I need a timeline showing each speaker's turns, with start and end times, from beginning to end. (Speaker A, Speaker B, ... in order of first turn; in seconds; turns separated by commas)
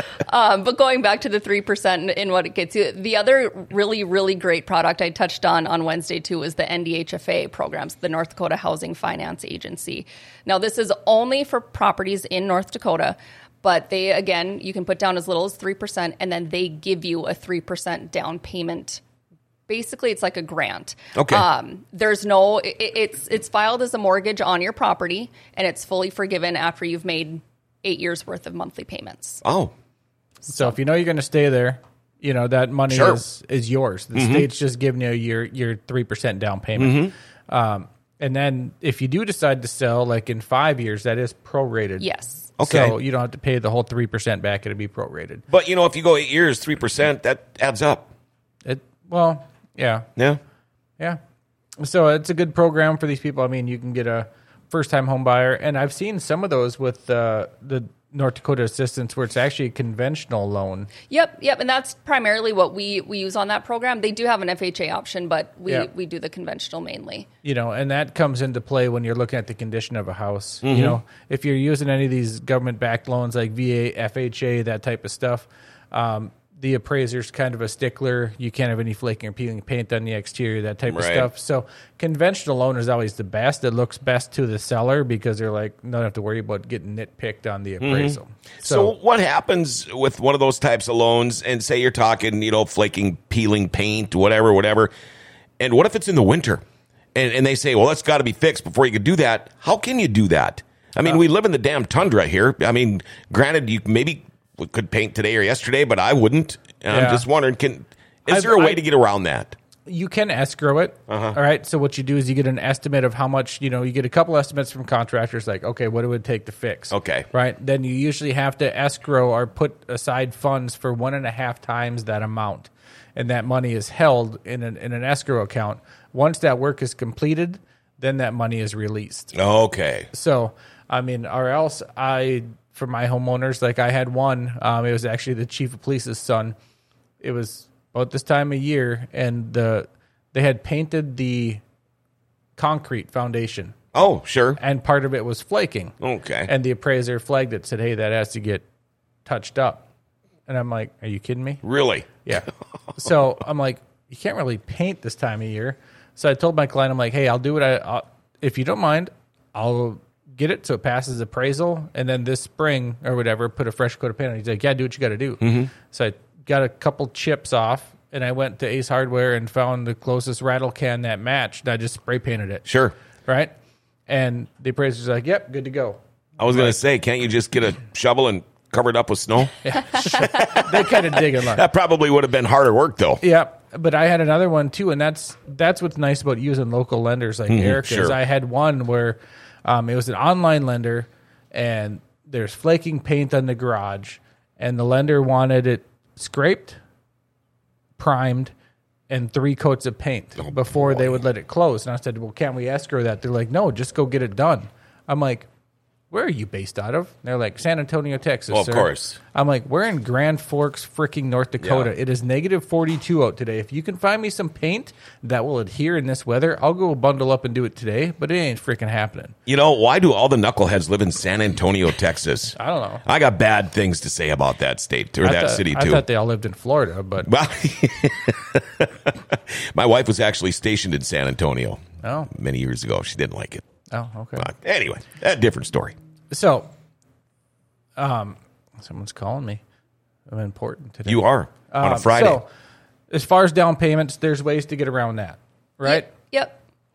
Speaker A: 0.3-19.0, Speaker A: 19.7-29.4, Speaker B: 21.2-21.4, Speaker B: 29.4-29.7, Speaker C: 30.5-45.5, Speaker B: 32.9-33.2, Speaker B: 34.1-34.5, Speaker B: 36.8-37.1, Speaker A: 42.0-42.5, Speaker B: 42.6-43.0, Speaker B: 45.5-48.1, Speaker C: 48.6-50.1, Speaker C: 51.8-60.9, Speaker A: 61.1-67.3, Speaker C: 67.4-88.9, Speaker B: 70.6-71.0, Speaker B: 80.9-81.3, Speaker B: 87.8-94.9, Speaker B: 95.6-96.6, Speaker B: 97.2-109.5, Speaker C: 106.9-107.3, Speaker C: 108.3-108.8, Speaker C: 109.9-129.4, Speaker B: 111.1-111.4, Speaker B: 116.9-117.3, Speaker B: 129.3-130.1, Speaker C: 130.1-136.6, Speaker C: 137.2-141.6, Speaker C: 142.6-143.8, Speaker B: 143.9-144.6, Speaker C: 144.6-148.6, Speaker B: 146.0-146.5, Speaker C: 149.3-149.8, Speaker C: 150.5-151.6, Speaker B: 151.6-152.1, Speaker C: 152.2-172.7, Speaker B: 165.4-165.7, Speaker B: 172.7-172.9, Speaker C: 173.3-173.5, Speaker C: 174.1-176.8, Speaker B: 176.4-183.2, Speaker C: 179.6-181.7, Speaker C: 183.2-196.8, Speaker B: 187.5-188.2, Speaker C: 198.0-198.5, Speaker C: 199.1-205.5, Speaker B: 200.4-201.2, Speaker C: 206.1-219.4, Speaker B: 208.5-209.2, Speaker B: 211.6-211.9, Speaker B: 219.5-226.1, Speaker C: 222.6-223.0, Speaker C: 225.2-227.3, Speaker B: 227.2-233.7, Speaker C: 232.0-232.3, Speaker C: 233.9-234.5, Speaker B: 234.4-235.9, Speaker C: 236.3-236.7, Speaker C: 238.0-239.6, Speaker C: 240.3-242.5, Speaker B: 241.1-242.4, Speaker C: 243.1-246.1, Speaker A: 245.8-246.6